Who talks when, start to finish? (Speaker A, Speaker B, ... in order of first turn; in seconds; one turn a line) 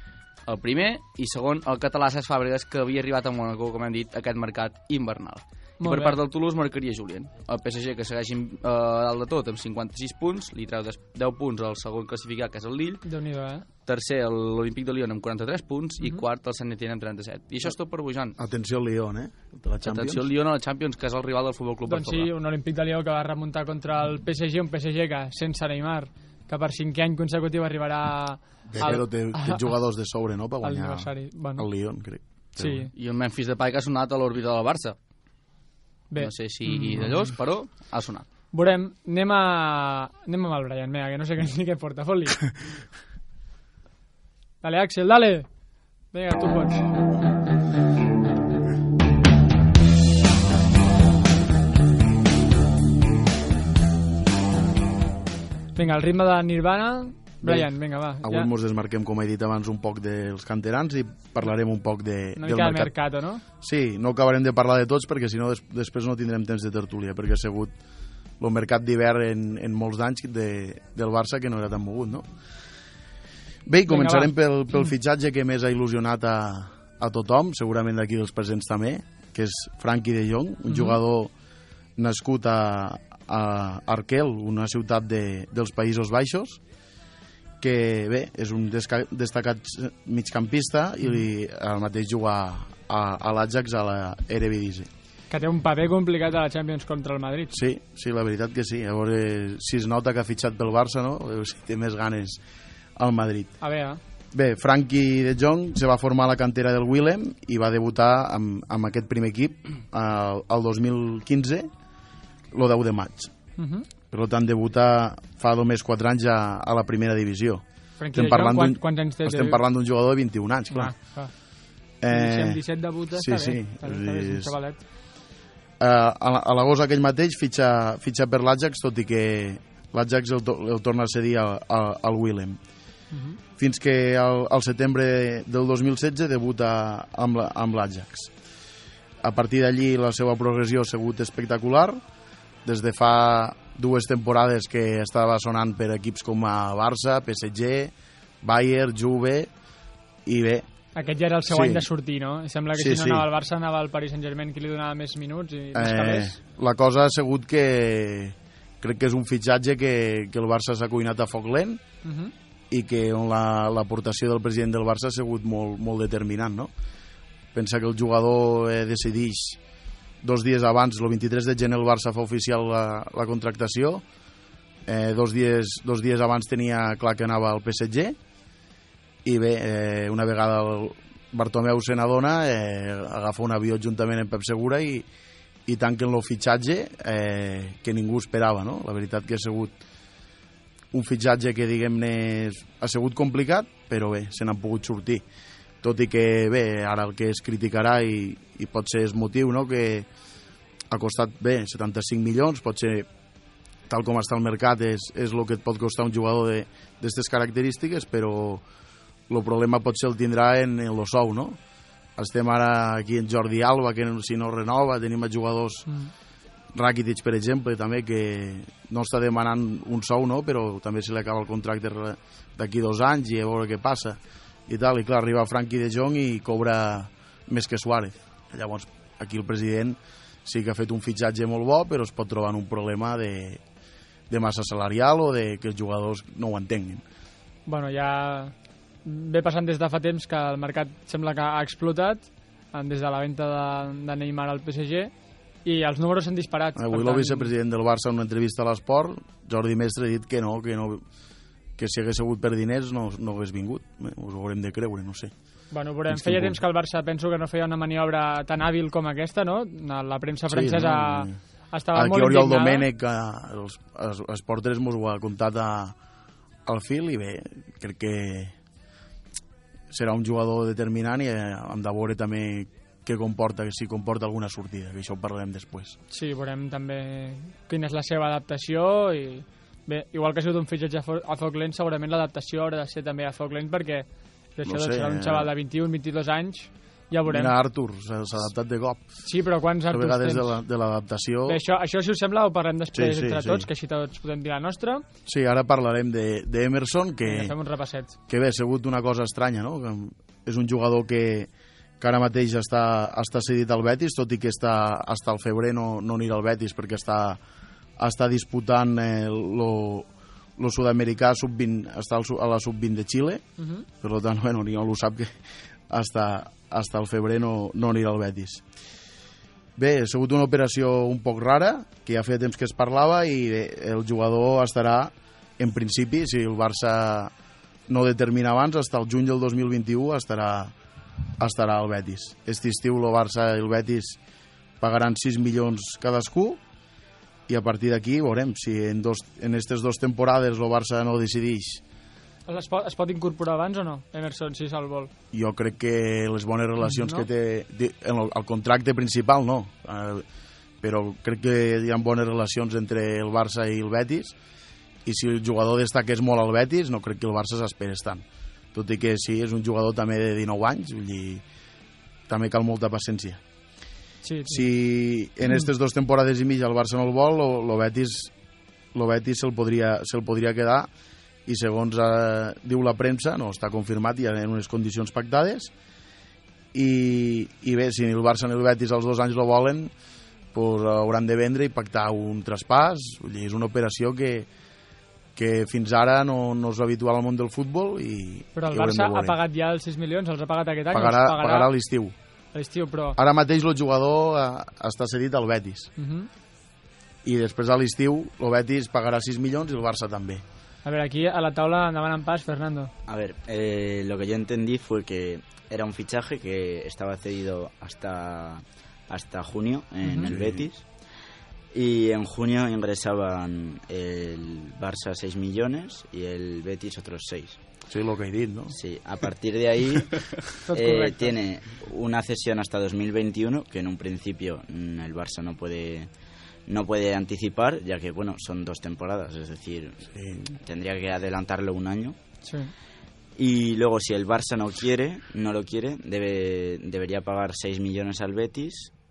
Speaker A: 0.5-13.0
Speaker B: 5.8-6.2
Speaker B: 13.0-13.7
Speaker A: 13.8-18.4
Speaker C: 18.4-20.2
Speaker A: 19.8-22.3
Speaker B: 21.9-29.7
Speaker C: 28.7-32.9
Speaker B: 30.6-31.7
Speaker B: 32.6-32.9
Speaker A: 32.9-35.0
Speaker B: 36.1-37.3
Speaker A: 36.2-38.2
Speaker B: 38.5-42.5
Speaker B: 44.6-45.5
Speaker B: 46.1-46.9
Speaker B: 55.8-58.5
Speaker C: 57.4-57.7
Speaker C: 58.2-62.9
Speaker B: 62.4-63.4
Speaker C: 63.6-67.7
Speaker C: 68.4-72.3
Speaker C: 73.7-81.3
Speaker B: 73.9-74.3
Speaker B: 80.7-81.0
Speaker C: 82.0-86.6
Speaker C: 87.6-94.9
Speaker B: 95.3-97.5
Speaker C: 97.5-102.4
Speaker C: 103.0-103.5
Speaker B: 103.6-104.0
Speaker C: 104.3-111.7
Speaker C: 112.5-113.3
Speaker B: 113.6-113.9
Speaker C: 114.1-117.6
Speaker B: 118.0-119.6
Speaker C: 118.1-120.9
Speaker B: 120.7-121.3
Speaker C: 122.0-122.6
Speaker B: 122.1-124.8
Speaker C: 123.1-124.5
Speaker C: 125.8-132.6
Speaker B: 133.1-133.4
Speaker C: 133.6-138.3
Speaker C: 139.2-142.0
Speaker C: 142.6-149.5
Speaker C: 150.2-150.7
Speaker B: 150.9-156.3
Speaker C: 151.5-151.9
Speaker C: 152.7-153.3
Speaker C: 155.7-161.8
Speaker B: 162.0-162.3
Speaker C: 162.7-166.7
Speaker C: 167.5-169.6
Speaker C: 170.2-174.0
Speaker C: 174.8-178.2
Speaker C: 179.2-185.1
Speaker C: 185.7-189.7
Speaker C: 190.9-195.2
Speaker C: 195.8-200.1
Speaker C: 200.9-203.1
Speaker C: 203.9-208.6
Speaker C: 209.3-211.6
Speaker C: 212.2-215.9
Speaker C: 216.7-233.6
Speaker C: 234.3-237.0
Speaker B: 237.7-238.5
Speaker B: 239.0-245.1
Speaker B: 245.6-247.5
Speaker C: 246.8-251.0
Speaker C: 251.8-255.3
Speaker B: 255.7-262.9
Speaker C: 256.1-256.6
Speaker C: 260.5-261.4
Speaker C: 261.9-265.9
Speaker C: 266.6-268.5
Speaker C: 269.9-276.0
Speaker B: 276.1-287.5
Speaker C: 284.6-285.5
Speaker C: 287.2-289.2
Speaker B: 289.2-290.6
Speaker C: 289.9-291.6
Speaker B: 291.4-295.0
Speaker C: 292.9-293.7
Speaker C: 295.2-297.5
Speaker B: 297.2-298.1
Speaker C: 298.3-301.5
Speaker C: 302.0-307.4
Speaker C: 308.0-313.4
Speaker B: 313.6-313.9
Speaker C: 314.0-315.3
Speaker C: 315.9-318.6
Speaker C: 319.8-327.3
Speaker C: 327.9-330.7
Speaker C: 331.4-334.2
Speaker C: 334.8-336.6
Speaker C: 337.5-341.8
Speaker B: 342.5-345.1
Speaker C: 345.3-350.2
Speaker B: 346.8-347.2
Speaker C: 350.8-354.3
Speaker C: 355.0-361.4
Speaker C: 362.3-363.4
Speaker B: 364.2-364.7
Speaker C: 364.5-368.3
Speaker C: 368.9-370.9
Speaker C: 371.4-375.7
Speaker C: 376.7-379.9
Speaker C: 380.5-384.5
Speaker C: 385.3-389.4
Speaker B: 388.5-391.7
Speaker C: 390.9-392.1
Speaker B: 392.5-393.2
Speaker C: 393.1-395.9
Speaker B: 396.0-396.3
Speaker C: 397.2-400.4
Speaker B: 400.8-402.9
Speaker D: 403.1-410.8
Speaker B: 410.0-410.3
Speaker C: 410.2-410.7
Speaker D: 411.7-417.6
Speaker C: 417.9-418.7
Speaker D: 418.7-426.1
Speaker B: 420.6-421.3
Speaker D: 426.7-432.2
Speaker C: 430.1-430.6
Speaker B: 432.4-432.7
Speaker D: 433.4-438.9